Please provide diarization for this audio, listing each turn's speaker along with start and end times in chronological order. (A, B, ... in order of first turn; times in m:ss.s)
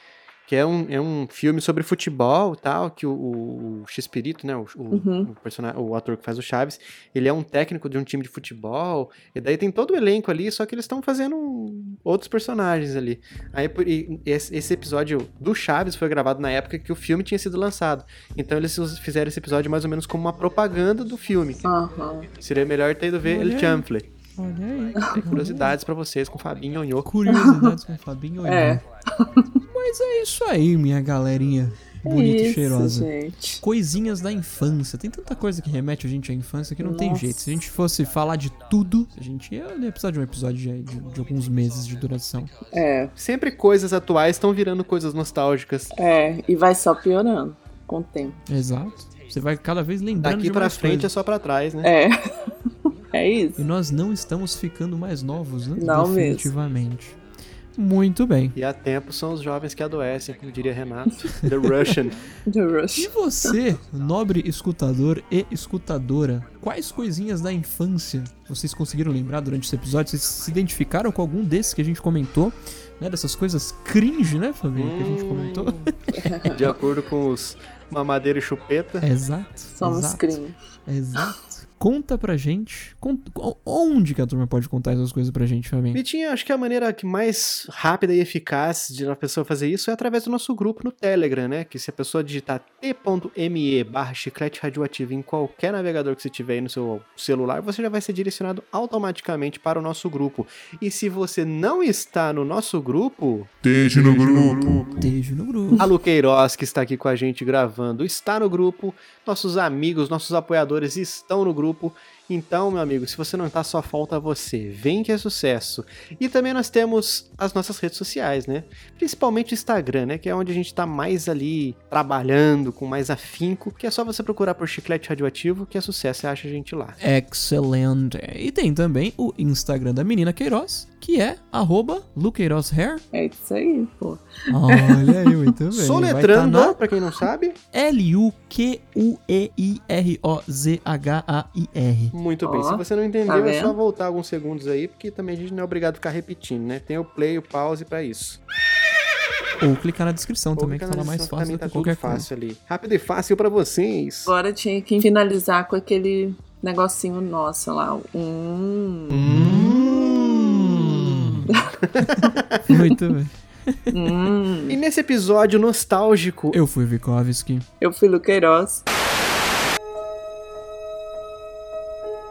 0:00.5-0:21.7 A
0:04.9-0:05.3 B
0:21.6-0:22.3 B
0:22.4-0:24.2 A
0:23.2-0:25.8 C
0:25.2-0:27.1 A
0:27.0-0:28.8 C
0:27.3-0:27.8 B
0:28.4-0:29.5 B
0:29.7-0:33.1 C
0:32.0-0:33.6 B
0:33.6-0:42.7 C
0:36.8-0:37.3 B
0:42.7-0:43.1 B
0:43.2-0:45.9 A
0:46.0-0:48.4 B
0:48.5-0:51.1 C
0:50.2-0:51.9 A
0:51.8-0:52.5 B
0:53.1-0:53.6 B
0:53.6-0:57.2 C
0:55.8-0:56.5 B
0:57.8-0:58.6 C
0:58.6-1:02.3 A
1:02.5-1:03.6 B
1:03.0-1:16.6 C
1:14.7-1:15.9 A
1:16.2-1:16.5 B
1:16.4-1:19.1 A
1:19.0-1:26.0 C
1:19.8-1:20.6 B
1:25.9-1:44.9 A
1:44.9-1:45.9 C
1:45.8-2:07.0 A
2:07.0-2:13.0 C
2:13.1-2:15.4 B
2:14.5-2:16.8 C
2:15.7-2:17.6 A
2:17.7-2:22.2 C
2:22.1-2:28.4 A
2:22.4-2:23.8 B
2:29.6-2:32.3 C
2:30.6-2:34.3 A
2:34.3-2:39.3 B
2:39.2-2:40.1 C
2:39.2-2:41.3 A
2:40.8-2:41.6 C
2:41.9-2:42.6 A
2:42.7-2:43.9 C
2:43.9-2:44.8 B
2:44.7-2:46.6 A
2:46.5-2:47.7 C
2:47.8-2:48.8 B